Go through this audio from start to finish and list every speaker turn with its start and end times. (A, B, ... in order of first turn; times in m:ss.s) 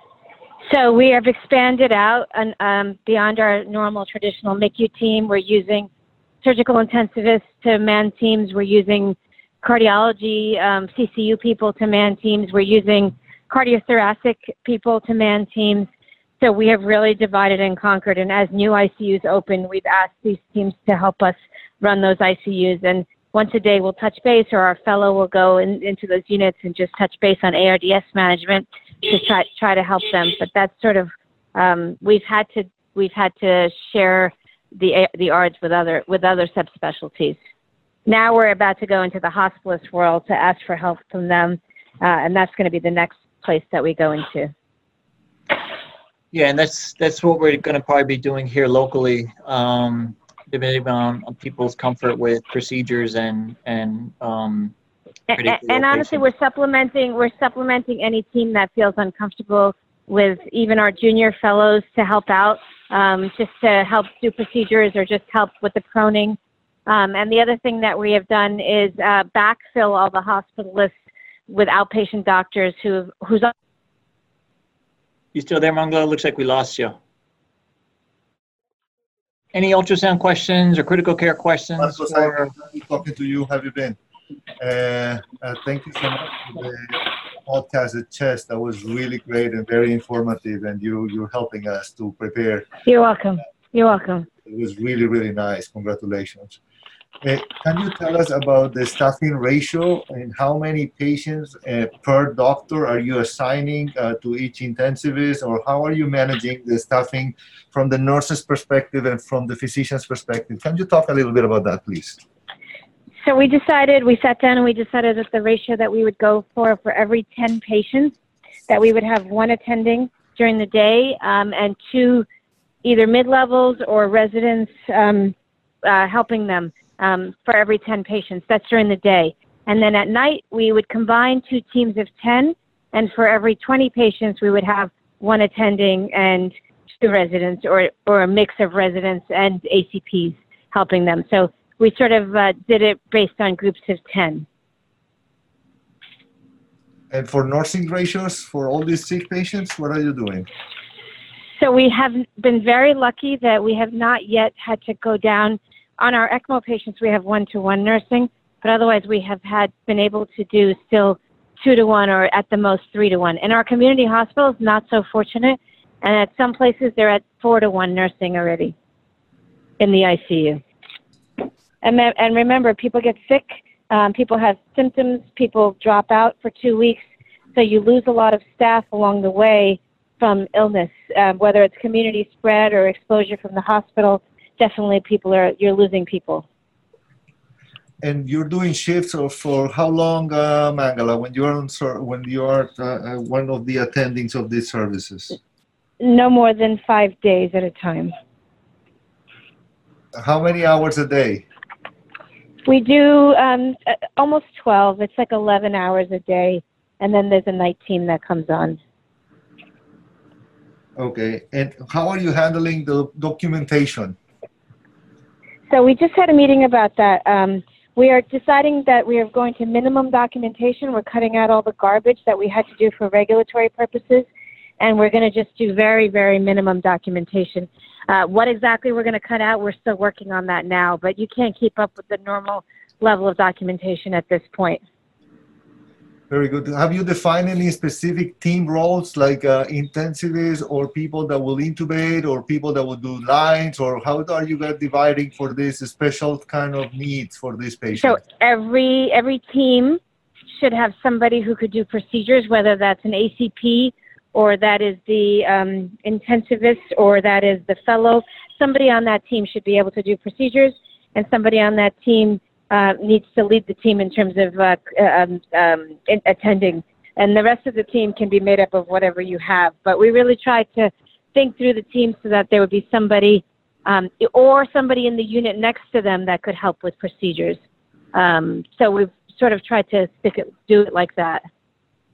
0:00.7-0:05.9 A
0:06.4-0:15.9 A
0:16.4-0:37.4 A
0:38.0-0:44.5 A
0:46.3-0:54.7 B
0:55.3-1:10.9 A
0:55.3-0:56.2 B
1:11.5-1:13.5 A
1:15.3-1:17.0 B
1:19.5-1:22.5 B
1:21.8-1:24.0 C
1:24.6-1:32.6 C
1:32.8-1:34.3 A
1:34.5-1:36.6 C
1:37.2-1:52.2 C
1:53.2-1:58.1 A
1:58.7-2:02.2 A
2:02.8-2:24.4 A
2:27.1-2:30.5 C
2:31.6-2:48.7 A
2:49.8-2:50.6 A
2:51.8-2:57.0 A
2:57.5-3:06.4 A
3:08.0-3:15.3 C
3:16.0-3:18.1 A
3:20.2-3:21.4 C
3:22.6-3:28.8 A
3:31.0-3:34.2 C
3:35.7-3:44.3 A
3:44.8-3:54.8 A
3:56.3-4:08.2 C
4:07.9-4:10.0 A
4:10.5-4:37.6 A
4:38.1-4:41.4 A